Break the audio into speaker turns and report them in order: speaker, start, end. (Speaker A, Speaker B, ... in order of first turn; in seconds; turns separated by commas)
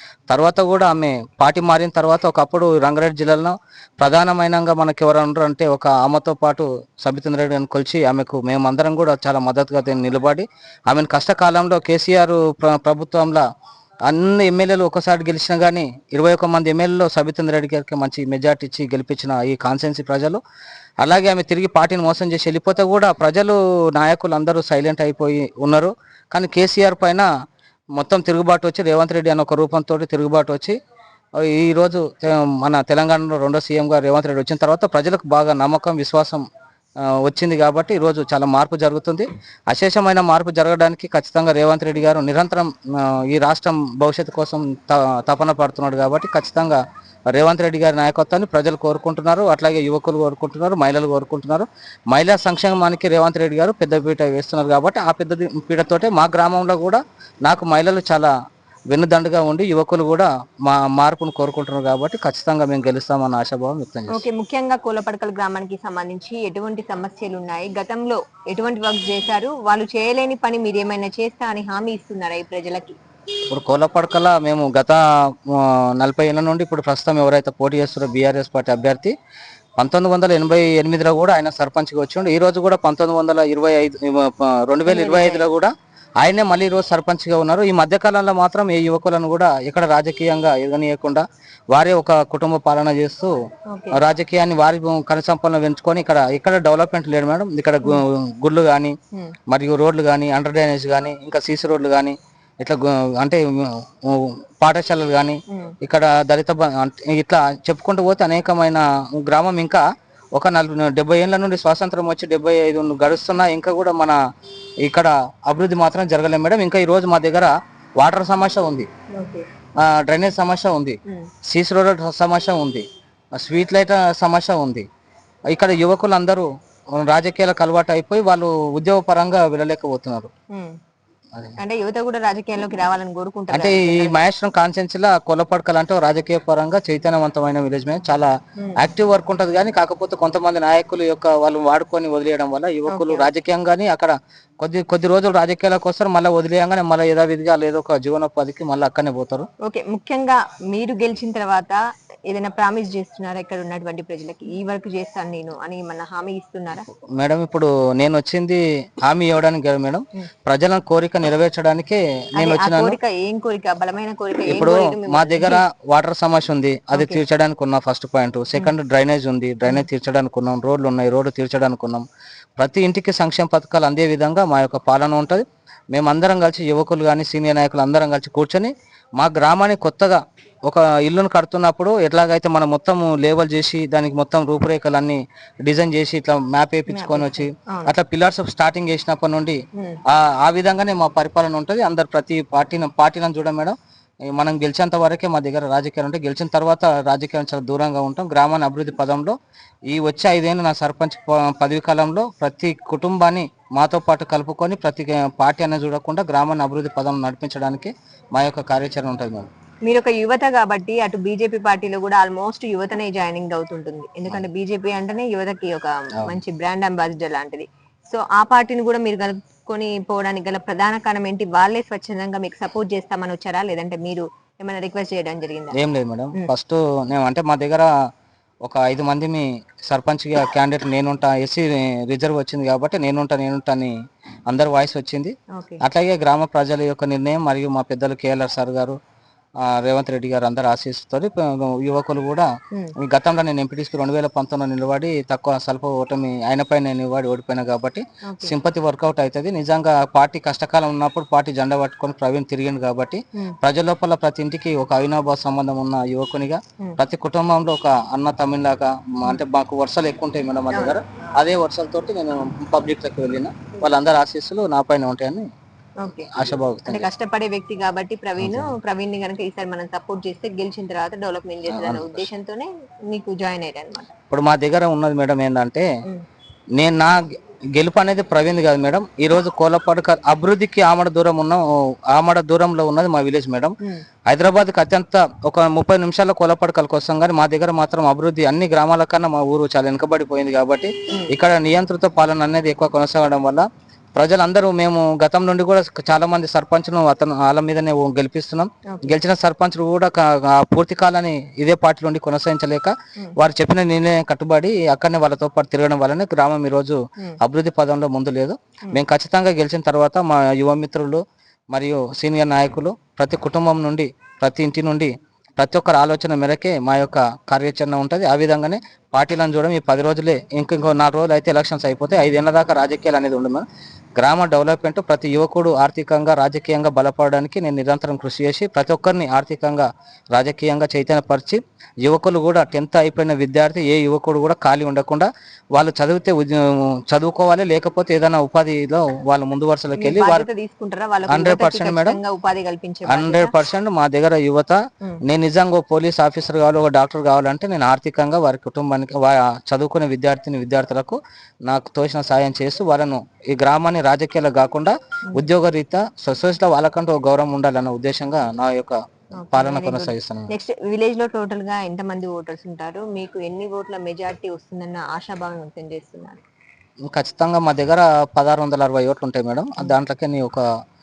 Speaker A: 0.3-13.4, Speaker A: 14.1-20.4, Speaker A: 21.0-27.3, Speaker A: 28.0-30.8, Speaker A: 31.4-36.4, Speaker A: 37.2-46.8, Speaker A: 47.3-58.3, Speaker A: 58.9-64.2, Speaker B: 64.1-73.0, Speaker A: 73.5-79.1, Speaker A: 79.8-93.3, Speaker B: 84.9-85.4, Speaker B: 93.7-94.0, Speaker A: 94.0-98.9, Speaker A: 99.5-109.8, Speaker B: 105.5-105.8, Speaker A: 110.4-114.2, Speaker A: 114.8-118.9, Speaker B: 119.1-119.4, Speaker A: 119.8-122.8, Speaker A: 123.4-124.9, Speaker A: 125.5-130.3, Speaker B: 131.6-134.2, Speaker A: 133.5-149.5, Speaker B: 142.9-143.3, Speaker B: 149.6-156.9, Speaker A: 157.2-163.0, Speaker B: 162.4-165.6, Speaker A: 164.5-172.0, Speaker B: 166.9-167.2, Speaker A: 172.6-193.8, Speaker B: 186.9-187.9, Speaker A: 194.3-199.3, Speaker A: 199.9-209.5, Speaker B: 209.9-225.8, Speaker A: 225.8-227.9, Speaker A: 228.7-233.9, Speaker A: 234.5-239.0, Speaker A: 239.6-242.5, Speaker A: 243.0-265.4, Speaker B: 248.3-248.5, Speaker B: 266.0-266.3, Speaker A: 266.3-267.1, Speaker B: 266.9-274.1, Speaker A: 268.4-268.7, Speaker A: 271.7-272.3, Speaker A: 274.3-275.9, Speaker A: 276.8-277.2, Speaker A: 277.8-283.7, Speaker A: 284.3-311.2, Speaker B: 298.9-299.2, Speaker A: 311.7-323.6, Speaker A: 324.2-340.5, Speaker B: 339.9-343.6, Speaker A: 341.3-342.2, Speaker A: 343.1-359.0, Speaker B: 359.4-366.4, Speaker A: 359.5-360.5, Speaker A: 367.1-370.6